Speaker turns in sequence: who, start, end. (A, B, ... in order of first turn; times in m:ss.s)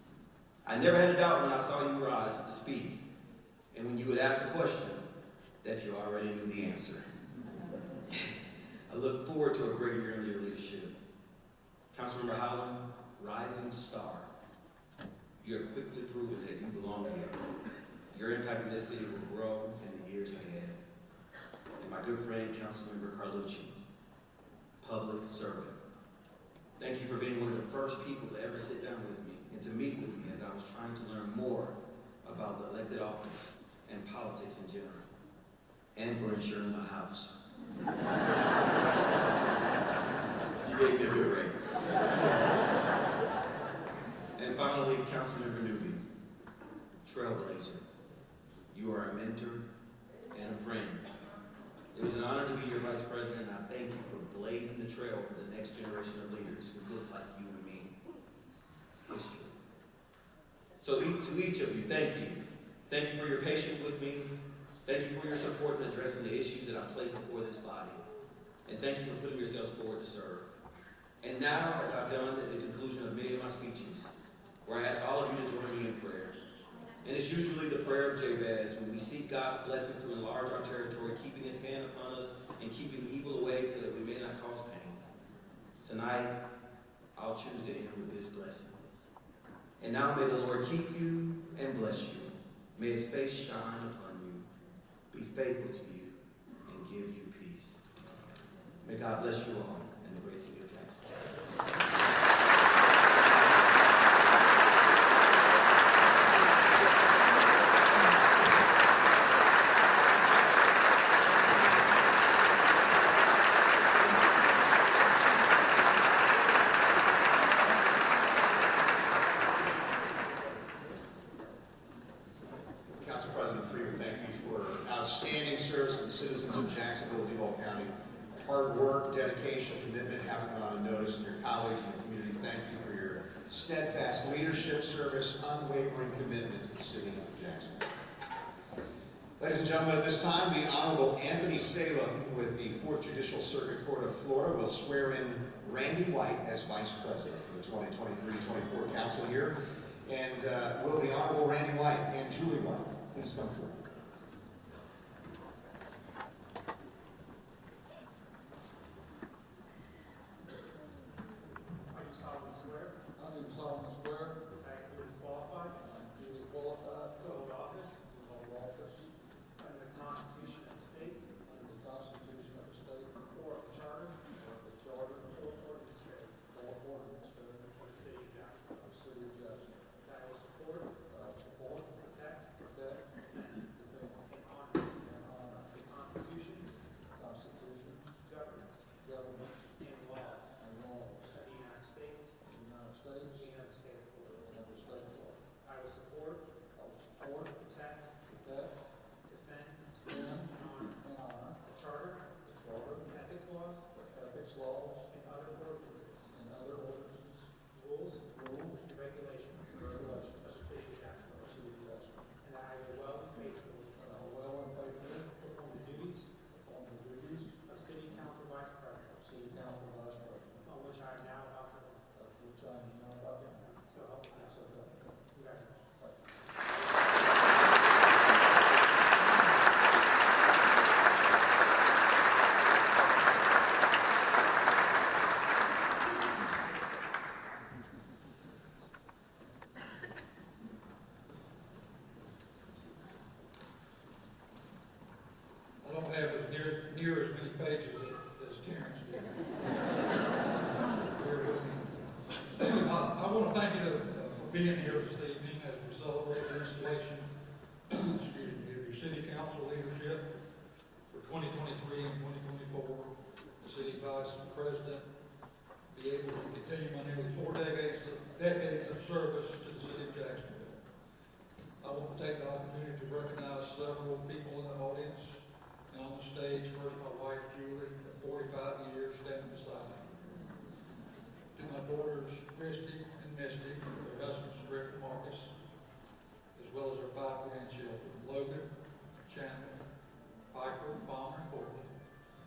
0:00.6-0:03.0 A
0:03.7-0:05.0 A
0:05.6-0:07.0 A
0:08.9-0:10.9 A
0:11.9-0:14.3 A
0:15.4-0:17.4 A
0:18.1-0:20.8 A
0:21.8-0:23.7 A
0:24.8-0:25.8 A
0:26.8-0:35.1 A
0:35.9-0:37.3 A
0:40.6-0:42.4 A
0:44.4-0:46.0 A
0:47.0-0:47.8 A
0:48.7-0:49.6 A
0:50.3-0:51.0 A
0:51.9-0:57.9 A
0:59.0-0:59.5 A
1:00.8-1:04.3 A
1:04.8-1:08.0 A
1:08.6-1:10.5 A
1:11.2-1:16.4 A
1:17.0-1:25.0 A
1:25.8-1:26.3 A
1:27.2-1:28.8 A
1:29.8-1:34.5 A
1:35.1-1:36.1 A
1:36.6-1:37.8 A
1:38.8-1:41.0 A
2:03.0-2:17.9 B
2:19.4-2:33.8 B
2:41.9-2:43.0 C
2:43.2-2:44.4 D
2:44.5-2:45.8 C
2:45.7-2:47.4 D
2:47.2-2:48.0 C
2:48.0-2:49.1 D
2:49.6-2:51.4 C
2:51.4-2:53.3 D
2:53.3-2:54.3 C
2:54.3-2:55.3 D
2:55.3-2:56.4 C
2:56.4-2:57.7 D
2:57.7-2:58.8 C
2:58.8-2:59.8 D
3:00.0-3:01.0 C
3:01.1-3:02.0 D
3:02.0-3:02.5 C
3:02.6-3:03.1 D
3:03.3-3:03.7 C
3:03.6-3:04.2 D
3:04.2-3:06.8 C
3:05.0-3:05.6 D
3:07.2-3:08.2 D
3:08.2-3:08.9 C
3:09.0-3:09.7 D
3:09.8-3:10.6 C
3:10.6-3:11.4 D
3:11.3-3:12.4 C
3:12.4-3:13.5 D
3:13.3-3:14.5 C
3:14.4-3:15.4 D
3:15.6-3:16.5 C
3:16.7-3:17.6 D
3:17.6-3:18.2 C
3:18.2-3:18.8 D
3:19.2-3:21.0 C
3:20.1-3:21.6 D
3:21.6-3:22.4 C
3:22.4-3:23.1 D
3:23.1-3:23.9 C
3:23.9-3:25.1 D
3:25.1-3:26.3 C
3:26.3-3:27.5 D
3:27.7-3:31.6 C
3:28.3-3:28.9 D
3:29.7-3:30.6 D
3:31.4-3:32.3 D
3:32.4-3:34.0 C
3:34.0-3:35.3 D
3:35.3-3:36.3 C
3:36.5-3:37.6 D
3:37.6-3:39.2 C
3:39.2-3:40.7 D
3:40.6-3:42.1 C
3:42.1-3:43.6 D
3:43.6-3:44.6 C
3:44.4-3:45.2 D
3:45.3-3:45.9 C
4:05.8-4:17.3 D
4:17.9-4:20.3 D
4:21.1-4:25.1 D
4:25.9-4:30.8 D
4:31.8-4:40.1 D
4:41.5-4:45.5 D
4:46.5-4:48.7 D
4:49.2-4:49.8 D
4:50.5-4:51.9 D